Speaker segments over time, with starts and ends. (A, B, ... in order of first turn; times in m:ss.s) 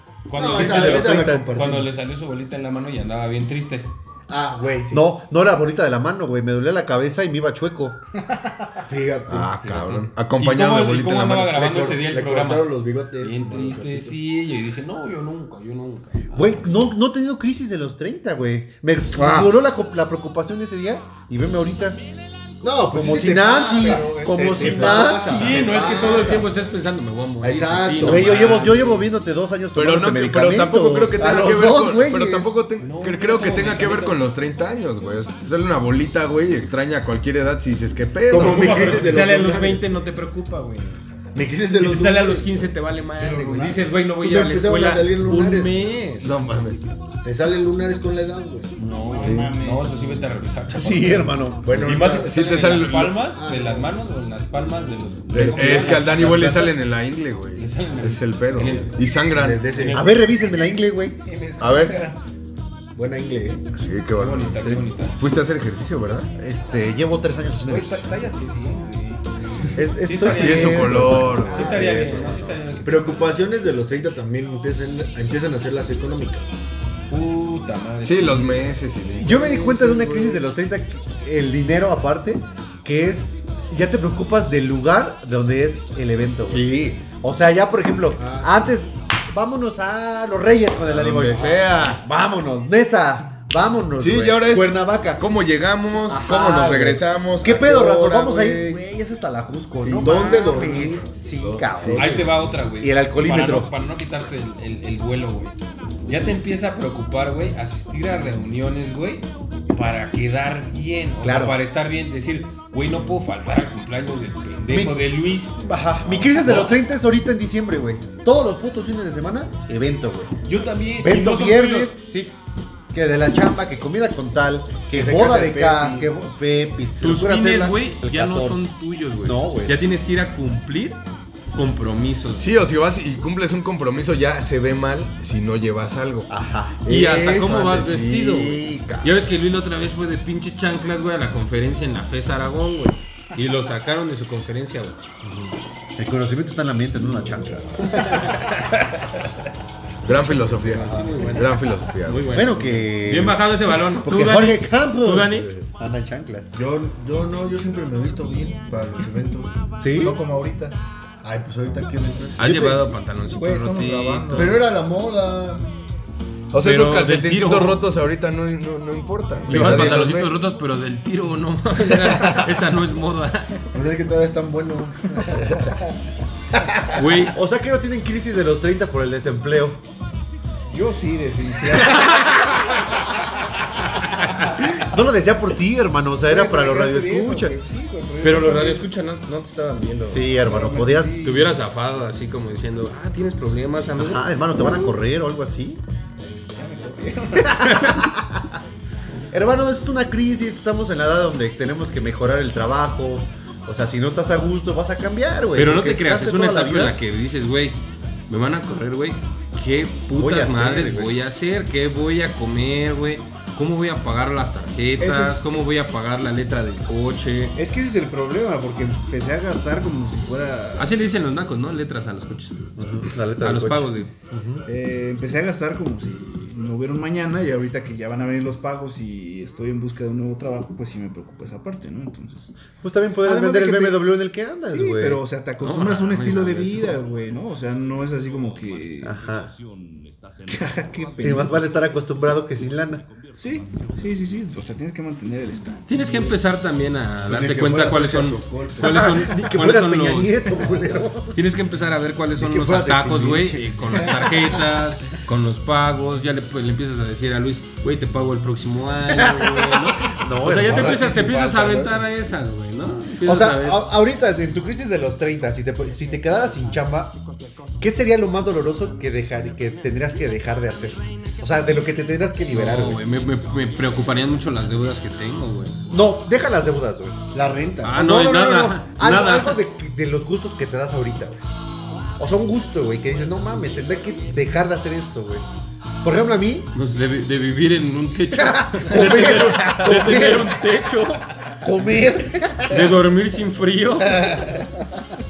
0:00.3-0:03.9 A
0:00.3-0:01.9 B
0:00.4-0:01.5 C
0:04.3-0:05.1 B
0:04.9-0:08.0 C
0:08.9-0:09.5 B
0:09.3-0:11.6 D
0:09.6-0:16.8 A
0:11.6-0:14.2 B
0:16.3-0:22.0 C
0:19.2-0:19.5 B
0:22.6-0:26.5 B
0:22.9-0:25.7 C
0:24.6-0:24.9 D
0:25.2-0:29.0 A
0:27.4-0:28.9 B
0:28.0-0:32.5 C
0:29.7-0:39.1 D
0:32.8-0:34.2 A
0:38.3-0:39.8 B
0:38.3-0:41.0 A
0:41.4-0:42.7 B
0:41.8-0:46.4 A
0:43.2-0:43.9 E
0:44.2-0:45.9 B
0:46.2-0:46.8 D
0:47.2-0:49.5 B
0:48.8-0:56.5 A
0:49.0-0:50.2 E
0:50.7-0:51.8 C
0:51.6-0:52.3 B
0:52.0-0:53.2 D
0:53.3-0:53.9 B
0:55.3-0:59.7 D
0:55.4-0:56.7 B
0:57.6-0:59.1 A
0:59.3-1:00.1 B
0:59.7-1:00.3 A
0:59.9-1:01.2 C
1:01.2-1:02.2 E
1:01.6-1:02.1 D
1:02.9-1:03.6 B
1:03.7-1:06.3 D
1:04.2-1:05.2 A
1:06.4-1:08.1 C
1:07.6-1:09.8 E
1:09.8-1:12.5 C
1:10.0-1:13.4 A
1:10.2-1:11.9 D
1:12.8-1:16.5 B
1:17.1-1:18.7 A
1:18.0-1:19.5 D
1:19.2-1:35.3 C
1:19.7-1:20.2 B
1:26.5-1:27.0 D
1:28.2-1:28.6 B
1:30.8-1:32.0 D
1:34.0-1:37.7 D
1:36.1-1:43.7 C
1:37.4-1:38.8 B
1:39.8-1:41.1 B
1:40.0-1:42.2 D
1:41.8-1:42.1 B
1:42.0-1:55.6 A
1:51.2-1:51.6 C
1:54.7-1:55.0 C
1:55.6-2:00.3 C
1:56.1-1:56.8 A
2:00.4-2:01.9 A
2:01.0-2:02.4 C
2:02.9-2:09.8 C
2:04.9-2:06.1 B
2:07.0-2:11.0 A
2:11.5-2:12.5 A
2:12.4-2:16.3 D
2:16.3-2:16.8 C
2:16.8-2:19.2 D
2:16.9-2:25.0 A
2:25.2-2:28.4 C
2:30.0-2:32.4 D
2:30.7-2:31.4 B
2:30.8-2:35.5 A
2:32.3-2:36.5 C
2:36.5-2:39.5 B
2:39.8-2:40.2 C
2:39.9-2:40.8 E
2:41.2-2:42.8 B
2:42.4-2:44.6 A
2:43.4-2:44.6 E
2:44.3-2:45.6 B
2:46.5-2:50.2 D
2:46.6-2:47.8 A
2:49.5-2:53.6 A
2:49.5-2:50.3 C
2:53.7-2:55.8 B
2:56.9-2:57.4 A
2:57.2-2:59.8 C
3:00.7-3:02.3 E
3:04.7-3:07.6 C
3:06.2-3:08.8 E
3:08.2-3:10.3 A
3:10.1-3:11.3 C
3:10.4-3:11.5 E
3:11.2-3:14.3 A
3:14.0-3:15.8 C
3:14.6-3:14.9 E
3:16.5-3:17.7 E
3:17.5-3:18.2 C
3:19.3-3:27.0 C
3:25.6-3:37.6 A
3:30.1-3:31.1 C
3:35.0-3:35.4 E
3:37.6-3:41.0 E
3:40.8-3:42.7 A
3:42.8-3:44.6 C
3:43.4-3:44.1 A
3:44.7-3:52.5 E
3:52.8-3:55.2 C
3:53.2-3:54.2 E
3:54.7-3:59.2 E
3:55.6-3:57.0 A
3:59.0-3:59.5 C
4:00.5-4:01.7 E
4:01.2-4:03.0 C
4:03.4-4:06.3 E
4:05.9-4:10.6 A
4:07.3-4:09.1 B
4:08.8-4:11.4 C
4:11.3-4:23.9 A
4:12.4-4:14.6 B
4:19.2-4:21.5 C
4:20.7-4:21.9 B
4:23.2-4:27.1 C
4:27.8-4:33.0 C
4:32.5-4:35.9 A
4:35.9-4:37.2 C
4:37.3-4:38.0 B
4:37.8-4:39.6 A
4:37.9-4:41.4 C
4:42.2-4:45.4 C
4:46.0-4:46.7 C
4:46.7-4:51.3 A
4:48.3-4:50.6 C
4:51.6-4:52.9 C
4:52.7-4:54.6 A